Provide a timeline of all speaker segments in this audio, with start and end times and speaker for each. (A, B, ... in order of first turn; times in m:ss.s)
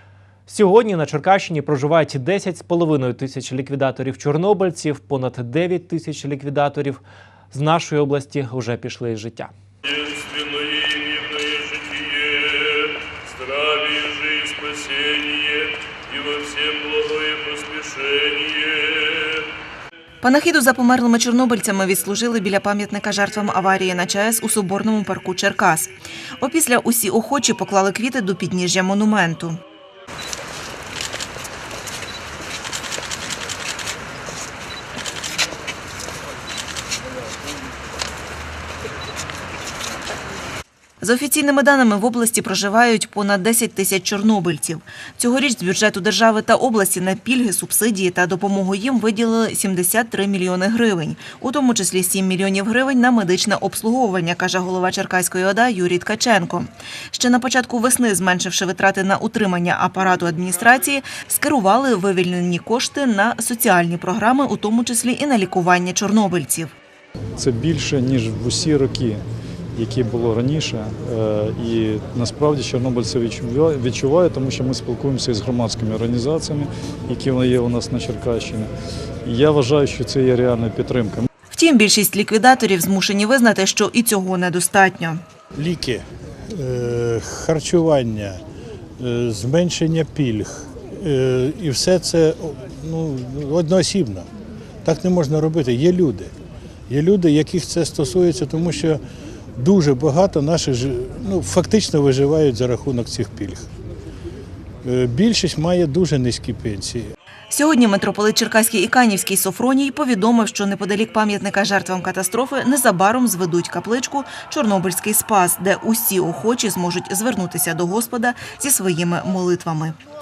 0:00.5-0:09.5 A
0:09.9-0:19.4 B
0:20.2-0:29.6 C
0:41.0-1:06.7 C
1:07.4-1:09.2 D
1:09.8-1:18.7 D
1:19.2-1:21.3 D
1:21.5-1:25.2 C
1:25.6-1:28.4 E
1:29.0-1:34.3 E
1:34.8-1:36.3 E
1:36.9-1:39.0 E
1:39.6-1:43.7 E
1:44.8-1:47.1 E
1:47.5-2:00.0 C